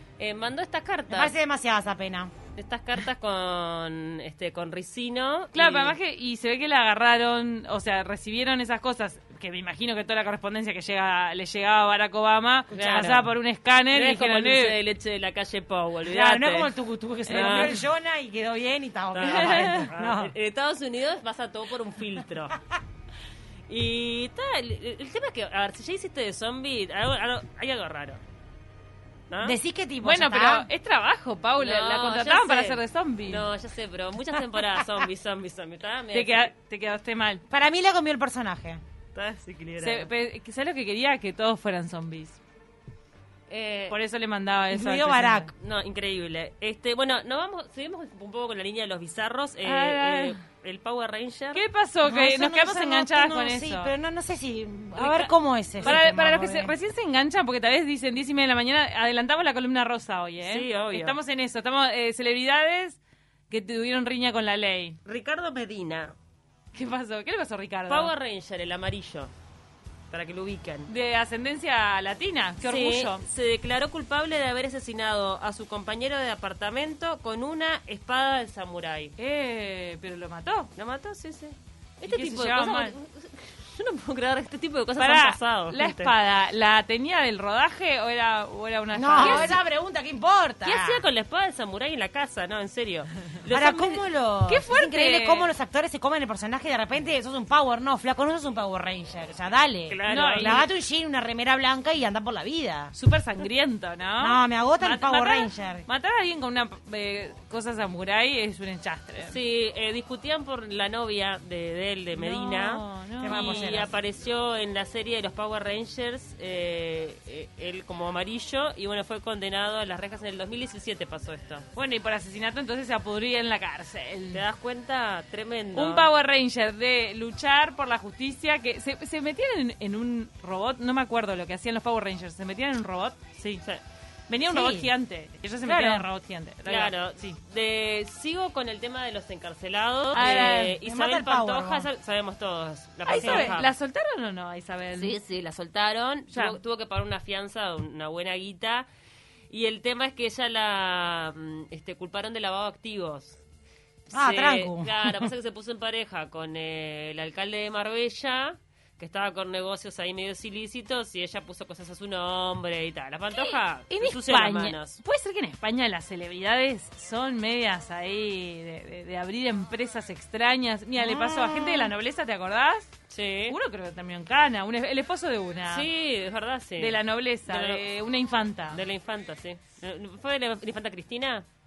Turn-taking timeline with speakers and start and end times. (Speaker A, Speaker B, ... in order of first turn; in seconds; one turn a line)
Speaker A: 0.2-1.3
Speaker B: 1.1-2.3
Speaker A: 2.5-6.0
Speaker C: 5.5-14.8
Speaker B: 12.7-13.3
Speaker A: 12.7-13.2
Speaker A: 13.9-16.7
Speaker B: 16.1-20.3
Speaker C: 17.3-17.8
Speaker A: 17.3-17.8
Speaker A: 19.1-22.6
Speaker C: 19.2-19.9
Speaker A: 23.7-28.2
Speaker A: 29.3-29.6
Speaker B: 29.4-30.7
Speaker C: 30.0-33.5
Speaker A: 31.6-36.5
Speaker C: 36.1-37.4
Speaker B: 37.5-38.8
Speaker A: 39.1-40.1
Speaker C: 39.8-42.4
Speaker A: 43.5-44.0
Speaker C: 43.9-45.5
Speaker B: 44.7-45.5
Speaker A: 45.5-51.6
Speaker C: 49.6-50.4
Speaker C: 51.5-53.9
Speaker B: 52.0-56.7
Speaker A: 55.0-55.2
Speaker C: 55.0-63.0
Speaker A: 60.4-61.2
Speaker C: 63.5-65.0
Speaker A: 65.0-66.1
Speaker C: 66.7-68.1
Speaker A: 67.9-69.3
Speaker A: 70.1-70.9
Speaker C: 70.9-73.2
Speaker A: 72.6-79.1
Speaker C: 79.2-80.7
Speaker A: 80.8-86.1
Speaker C: 82.1-82.9
Speaker C: 85.0-89.6
Speaker B: 88.9-91.0
Speaker A: 89.2-89.5
Speaker A: 90.6-94.0
Speaker B: 93.5-102.9
Speaker C: 94.5-95.5
Speaker A: 99.9-100.7
Speaker C: 100.1-100.7
Speaker C: 102.9-109.3
Speaker B: 104.2-105.8
Speaker A: 109.2-121.7
Speaker C: 112.1-113.7
Speaker B: 113.2-113.9
Speaker C: 121.7-124.4
Speaker A: 124.3-126.1
Speaker C: 125.7-133.6
Speaker C: 134.3-137.4
Speaker B: 134.4-134.9
Speaker B: 135.6-136.1
Speaker A: 136.7-143.7
Speaker C: 140.1-140.8
Speaker B: 140.5-141.9
Speaker C: 143.1-145.2
Speaker B: 143.2-143.6
Speaker A: 144.9-148.9
Speaker C: 146.3-146.6
Speaker A: 149.5-153.4
Speaker A: 154.1-165.0
Speaker B: 154.1-155.3
Speaker C: 163.3-172.9
Speaker B: 171.0-171.9
Speaker A: 173.1-173.6
Speaker C: 173.5-175.9
Speaker A: 175.6-177.8
Speaker C: 176.8-178.8
Speaker A: 178.7-181.4